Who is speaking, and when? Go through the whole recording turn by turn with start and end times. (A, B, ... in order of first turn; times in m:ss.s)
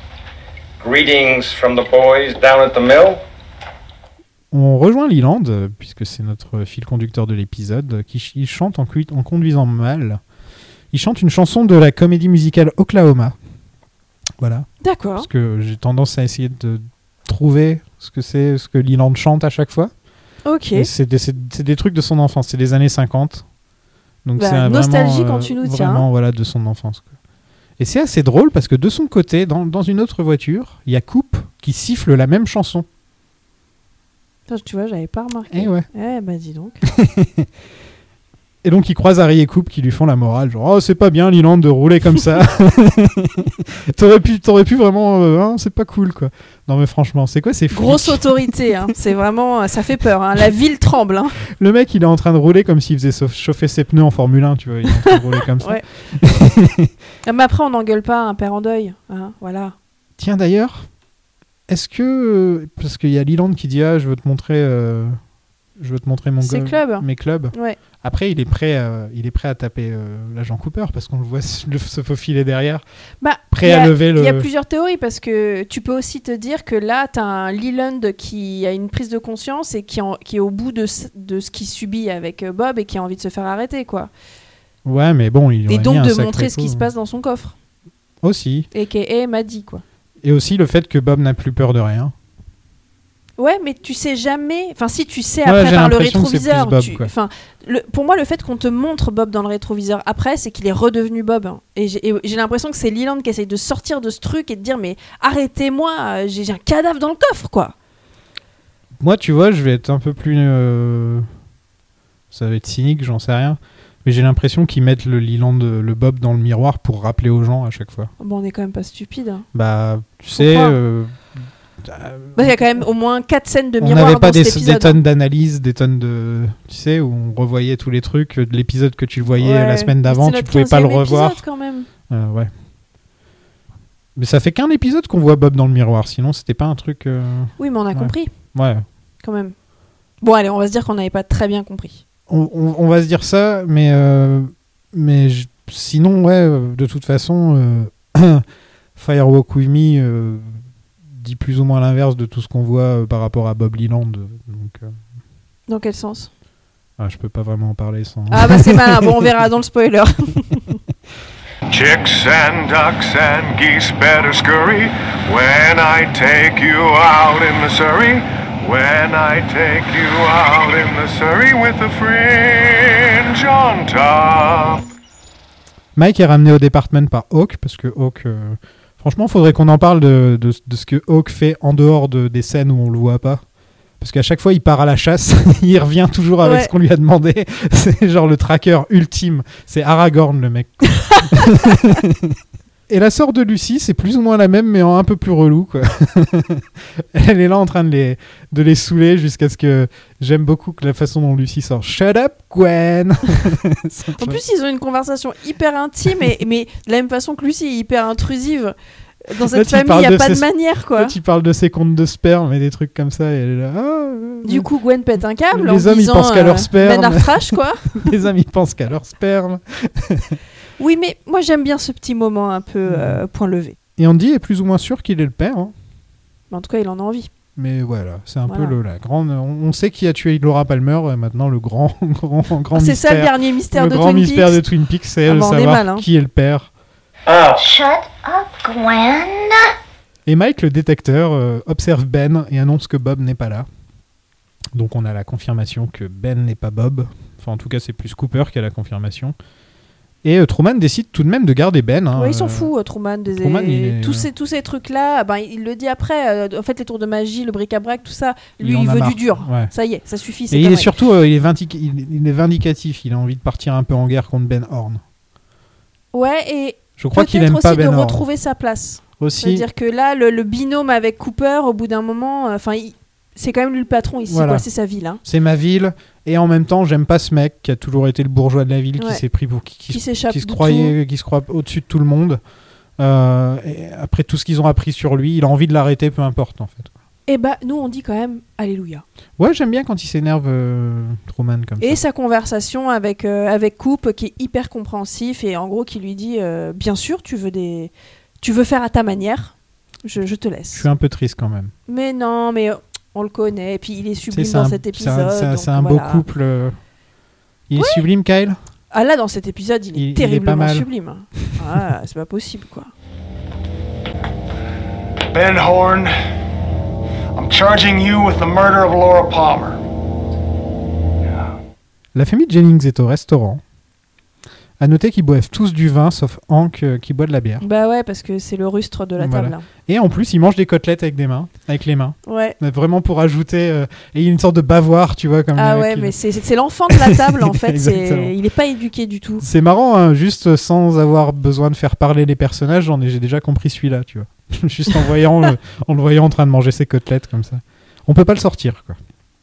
0:00.8-0:03.0 A
0:04.5-0:10.2 B
0:10.9-0:13.4 B
0:14.4-0:19.9 B
0:14.8-0:15.3 C
0:20.5-0:20.9 C
0:20.8-0:23.4 B
0:24.2-0:27.1 B
0:24.4-0:26.1 C
0:27.8-0:32.9 B
0:34.5-0:36.8 C
0:35.5-0:35.9 B
0:36.9-0:37.5 B
0:38.6-0:48.6 B
0:47.7-0:51.4 C
0:51.6-0:56.9 B
0:55.0-0:55.8 C
0:57.2-0:59.8 C
1:00.2-1:00.9 B
1:01.7-1:05.2 B
1:05.8-1:12.8 B
1:06.4-1:07.8 C
1:13.2-1:24.1 C
1:13.5-1:14.5 B
1:24.8-1:26.9 B
1:25.7-1:27.6 C
1:28.2-1:28.7 B
1:28.7-1:29.8 C
1:30.2-1:32.1 B
1:33.4-1:47.8 C
1:35.4-1:37.1 B
1:49.0-1:51.3 B
1:52.3-1:58.1 B
1:58.2-1:59.5 C
1:59.5-2:02.6 B
2:00.3-2:00.8 C
2:02.4-2:05.0 C
2:03.8-2:11.4 B
2:09.4-2:11.9 C
2:12.1-2:12.5 B
2:14.2-2:18.8 B
2:17.6-2:18.3 C
2:19.2-2:19.6 C
2:20.2-2:22.0 C
2:22.3-2:28.4 B
2:29.0-2:30.6 B
2:31.1-2:35.0 B
2:35.7-2:36.3 C
2:37.0-2:39.3 B
2:38.3-2:40.7 C
2:41.7-2:54.8 D
2:56.0-3:03.4 B
3:04.0-3:12.4 B
3:06.4-3:06.7 C
3:12.9-3:24.4 B
3:24.2-3:28.8 C
3:29.3-3:31.2 C
3:29.4-3:34.7 B
3:34.4-3:38.1 C
3:35.5-3:40.4 B
3:40.8-3:43.8 C
3:42.9-3:43.2 B
3:44.0-3:45.7 B
3:46.5-3:47.3 C
3:47.6-3:56.7 B
3:48.5-3:48.8 C
3:52.8-3:54.6 C
3:55.3-3:56.1 C
3:57.6-3:59.7 E
4:00.3-4:03.7 B
4:04.7-4:09.4 B
4:10.2-4:12.7 B
4:12.2-4:20.9 C
4:13.3-4:14.3 B
4:18.6-4:19.7 B
4:20.5-4:25.0 B
4:26.1-4:35.2 C
4:27.0-4:28.2 B
4:29.2-4:29.7 B
4:34.3-4:34.7 B
4:35.2-4:42.4 B
4:39.0-4:39.2 C
4:39.9-4:41.0 C
4:43.0-4:46.9 B
4:47.3-4:49.0 C
4:49.4-4:52.0 B
4:51.8-5:00.9 C
5:00.7-5:01.7 B
5:01.9-5:06.2 C
5:04.3-5:06.8 B
5:07.7-5:08.6 B
5:07.8-5:08.0 C
5:08.9-5:12.9 C
5:10.0-5:10.9 B
5:15.3-5:16.1 F
5:17.4-5:19.8 F
5:22.2-5:23.6 B
5:24.8-5:27.6 B
5:27.6-5:29.6 C
5:29.2-5:36.2 B
5:32.3-5:32.6 C
5:35.6-5:39.4 C
5:36.9-5:38.3 B
5:39.4-5:49.0 B